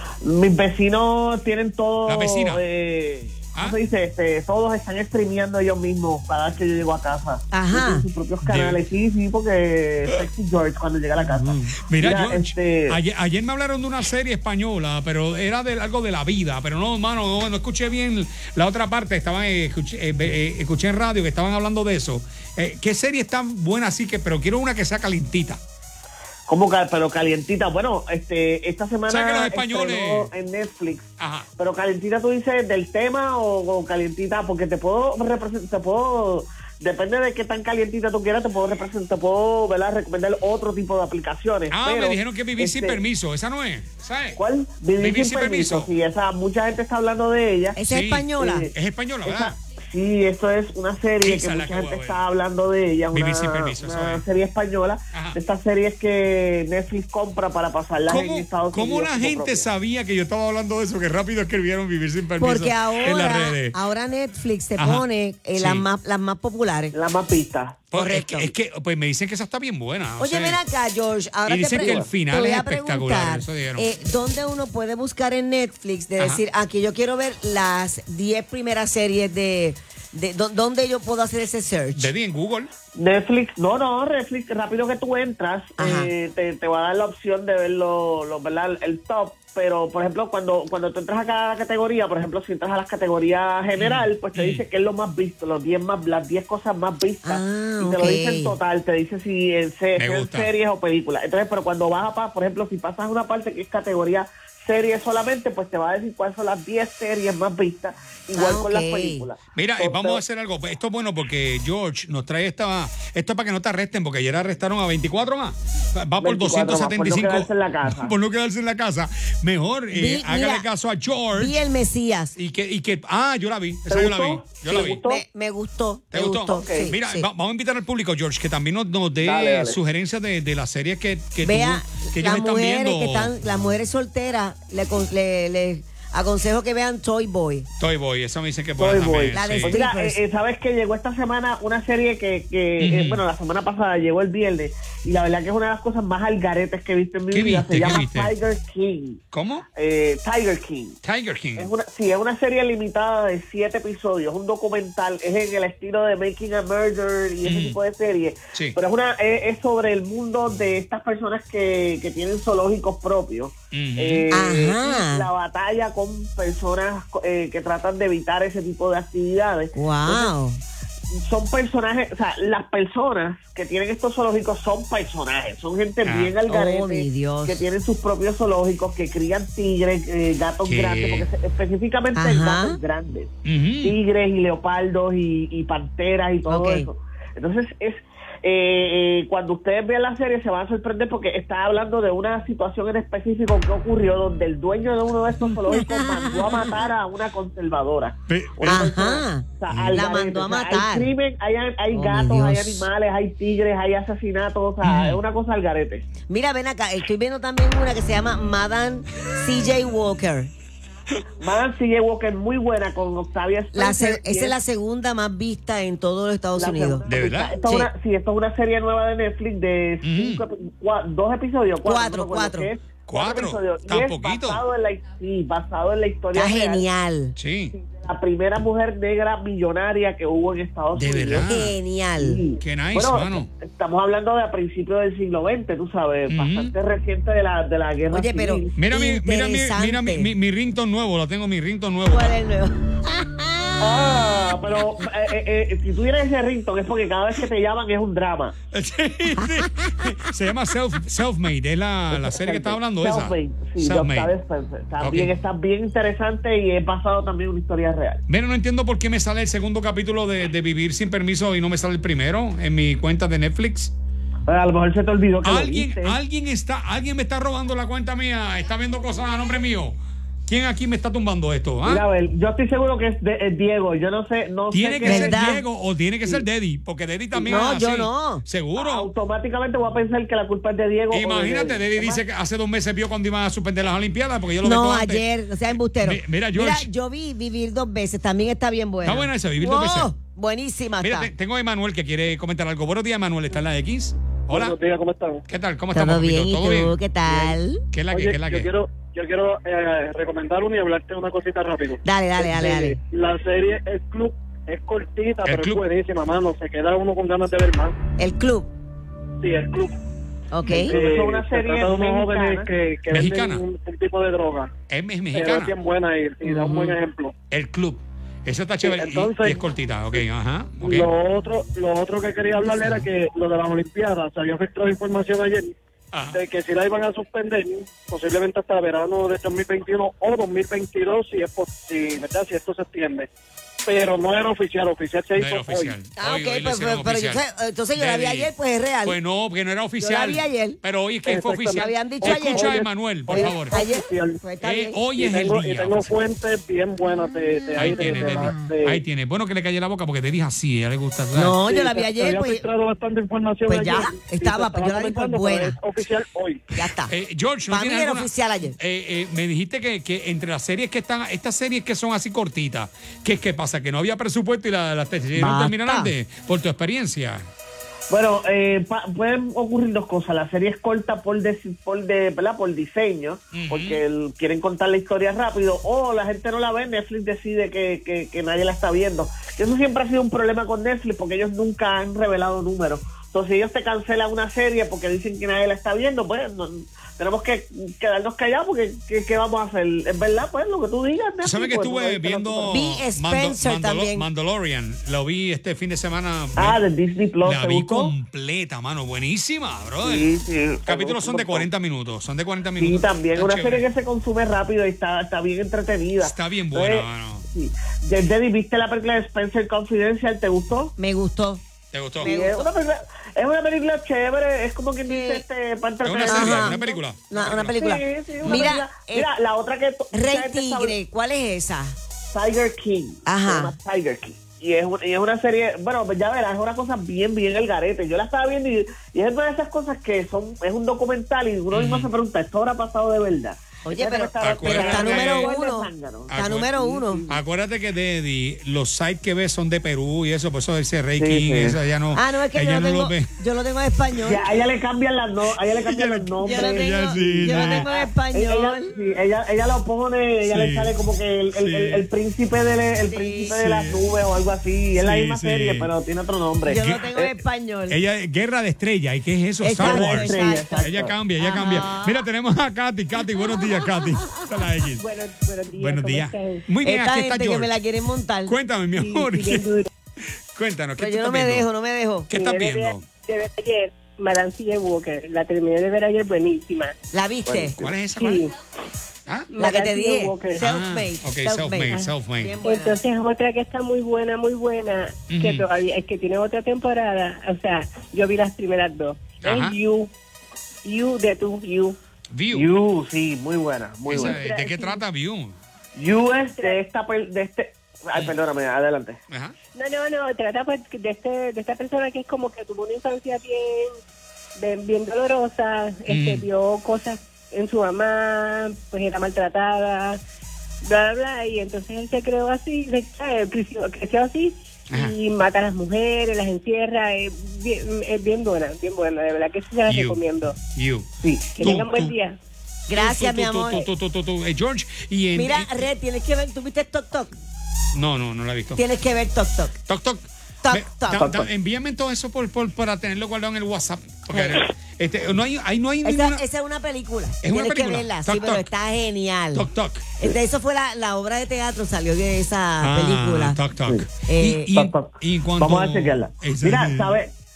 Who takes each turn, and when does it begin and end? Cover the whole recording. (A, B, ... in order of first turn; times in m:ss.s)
0:00.2-0:13.0 A
0:02.1-0:02.6 B
0:07.5-0:08.0 C
0:08.4-0:08.8 B
0:11.3-0:25.6 B
0:26.5-0:43.0 A
0:29.1-0:30.3 B
0:31.2-0:31.5 B
0:41.7-0:44.4 B
0:44.3-0:47.8 A
0:45.0-0:45.9 B
0:47.8-0:48.7 C
0:47.8-0:49.5 B
0:48.4-0:48.7 A
0:49.2-0:59.7 A
0:51.2-0:52.2 B
0:53.1-0:54.2 B
0:55.1-0:55.4 B
0:58.1-1:03.8 B
1:02.4-1:06.9 C
1:04.8-1:05.9 B
1:06.9-1:07.8 A
1:07.9-1:10.6 B
1:07.9-1:08.5 C
1:10.2-1:22.1 C
1:11.4-1:13.9 B
1:11.8-1:12.1 A
1:21.9-1:22.7 B
1:22.9-1:50.2 A
1:25.8-1:26.1 C
1:33.8-1:34.6 B
1:37.2-1:38.5 C
1:40.0-1:40.5 B
1:48.3-1:49.2 C
1:49.5-2:01.6 B
1:56.2-1:58.1 A
1:59.9-2:00.7 C
2:01.3-2:02.4 C
2:02.4-2:05.0 B
2:03.9-2:05.2 A
2:04.7-2:07.3 C
2:06.1-2:13.3 B
2:06.5-2:06.9 A
2:09.2-2:09.8 A
2:11.4-2:17.7 C
2:17.8-2:19.8 B
2:18.8-2:29.2 A
2:19.3-2:20.2 C
2:22.8-2:23.2 B
2:27.3-2:28.3 B
2:29.3-2:29.6 B
2:29.7-2:31.0 A
2:31.0-2:31.7 B
2:31.6-2:50.3 A
2:37.4-2:37.8 B
2:43.7-2:44.3 B
2:44.3-2:45.3 C
2:49.8-2:50.6 C
2:51.1-3:26.0 A
2:56.0-2:56.3 B
2:56.5-2:57.6 C
3:00.6-3:01.3 B
3:02.1-3:02.8 C
3:03.4-3:04.0 B
3:06.5-3:06.9 C
3:15.7-3:16.6 C
3:18.3-3:18.9 B
3:18.6-3:21.1 C
3:19.7-3:20.0 B
3:21.9-3:22.9 C
3:24.8-3:25.2 B
3:26.3-3:30.5 C
3:31.4-3:34.6 A
3:33.7-3:37.0 C
3:36.6-3:46.8 A
3:37.1-3:37.6 B
3:37.6-3:37.9 C
3:40.0-3:40.4 B
3:41.8-3:42.7 C
3:43.1-3:44.6 B
3:46.3-3:47.4 C
3:47.4-3:47.7 B
3:47.8-3:51.5 A
3:50.9-3:51.8 B
3:51.4-3:52.4 C
3:52.2-3:58.7 A
3:52.6-3:53.5 B
3:56.3-3:56.7 B
3:58.1-4:00.3 C
3:58.8-4:02.4 B
4:02.0-4:04.1 C
4:03.8-4:08.5 A
4:08.7-4:14.3 B
4:09.4-4:09.7 C
4:12.1-4:18.2 A
4:15.0-4:15.3 B
4:18.3-4:23.9 B
4:24.5-4:26.2 A
4:25.4-4:32.0 B
4:31.8-4:35.4 A
4:34.7-4:39.1 B
4:35.0-4:35.6 C
4:37.3-4:37.7 A
4:37.5-4:38.4 C
4:38.7-4:42.2 A
4:41.1-4:46.9 B
4:44.6-4:51.3 C
4:49.0-4:50.1 B
4:51.0-4:54.7 B
4:54.5-4:55.4 D
4:55.5-4:56.9 B
4:55.9-4:57.8 C
4:57.9-4:58.7 B
4:58.1-5:08.0 D
5:02.0-5:03.0 C
5:05.5-5:05.8 B
5:08.2-5:08.7 C
5:09.4-5:09.9 D
5:10.5-5:11.0 C
5:10.7-5:12.7 A
5:10.7-5:14.7 D
5:13.1-5:13.6 B
5:14.9-5:15.7 B
5:15.3-5:17.3 D
5:16.4-5:17.0 C
5:17.5-5:21.1 B
5:18.8-5:19.6 D
5:20.8-5:25.7 D
5:26.1-5:26.4 B
5:26.3-5:33.3 D
5:33.8-5:36.0 D
5:35.4-5:37.4 B
5:36.2-5:39.2 C
5:37.9-5:38.5 B
5:39.0-5:43.8 B
5:40.0-5:40.8 C
5:41.2-5:44.4 D
5:41.7-5:42.8 C
5:43.3-5:45.0 C
5:44.6-5:46.1 B
5:45.2-5:49.0 D
5:47.5-5:48.6 C
5:47.8-5:51.5 B
5:51.3-5:52.6 C
5:51.6-5:56.6 D
5:53.7-5:55.8 C
5:56.7-5:57.1 C
5:57.1-6:07.4 B
5:57.7-5:58.8 C
6:05.4-6:06.1 C
6:08.1-6:32.8 A
6:13.5-6:14.0 B
6:31.4-6:36.8 B
6:32.7-6:34.3 C
6:36.6-6:38.1 A
6:37.4-6:40.3 B
6:40.0-6:41.7 A
6:40.9-6:43.8 B
6:42.8-6:50.9 A
6:46.2-6:47.4 B
6:51.0-6:51.6 C
6:51.9-6:52.3 B
6:52.2-6:52.7 C
6:52.2-6:57.0 A
6:55.1-6:55.4 C
6:56.0-6:57.7 B
6:56.3-6:59.3 C
6:57.7-7:01.0 A
7:00.1-7:02.0 C
7:02.3-7:17.4 A
7:03.2-7:03.7 C
7:11.7-7:12.1 B
7:13.8-7:17.2 C
7:14.4-7:15.5 B
7:16.3-7:16.7 B
7:17.3-7:23.3 B
7:21.2-7:21.8 A
7:22.1-7:24.4 C
7:24.2-7:37.3 A
7:25.7-7:27.9 B
7:26.4-7:28.9 C
7:30.5-7:30.9 B
7:31.6-7:32.1 B
7:33.1-7:33.6 C
7:33.5-7:34.0 B
7:35.0-7:35.9 B
7:36.6-7:38.0 C
7:36.7-7:37.0 B
7:37.9-7:45.0 B
7:39.6-7:42.3 C
7:39.8-7:41.1 A
7:45.0-7:46.6 E
7:45.7-7:47.7 B
7:46.8-7:48.6 C
7:48.4-7:49.7 B
7:49.0-7:49.9 E
7:50.5-7:51.7 B
7:51.0-7:52.3 C
7:52.3-7:53.0 B
7:52.3-7:56.9 E
7:57.1-7:57.8 C
7:57.4-7:57.9 A
7:57.8-7:58.5 B
7:58.2-7:58.5 E
7:59.5-8:00.6 E
7:59.6-8:03.0 C
8:00.6-8:02.6 B
8:02.6-8:10.1 E
8:05.3-8:05.7 B
8:09.4-8:09.8 B
8:10.8-8:12.0 E
8:12.3-8:12.7 B
8:12.5-8:14.4 A
8:14.1-8:15.6 B
8:14.1-8:15.0 E
8:16.0-8:19.2 A
8:19.7-8:24.0 E
8:24.6-8:30.2 E
8:26.1-8:26.4 B
8:30.8-8:40.6 E
8:34.9-8:35.1 B
8:39.8-8:40.2 B
8:40.7-8:41.1 B
8:41.2-8:41.6 A
8:41.6-8:42.4 E
8:41.6-8:42.2 B
8:42.9-8:43.8 C
8:42.9-8:45.8 B
8:45.3-8:47.3 C
8:47.9-8:48.8 B
8:48.8-8:49.8 C
8:49.9-8:56.4 B
8:50.6-8:51.3 C
8:51.1-8:51.5 A
8:54.3-8:54.6 C
8:56.0-8:59.7 C
8:57.4-8:58.6 B
8:59.5-9:00.1 B
9:00.2-9:03.6 C
9:02.8-9:07.2 B
9:04.2-9:04.7 C
9:04.7-9:07.3 A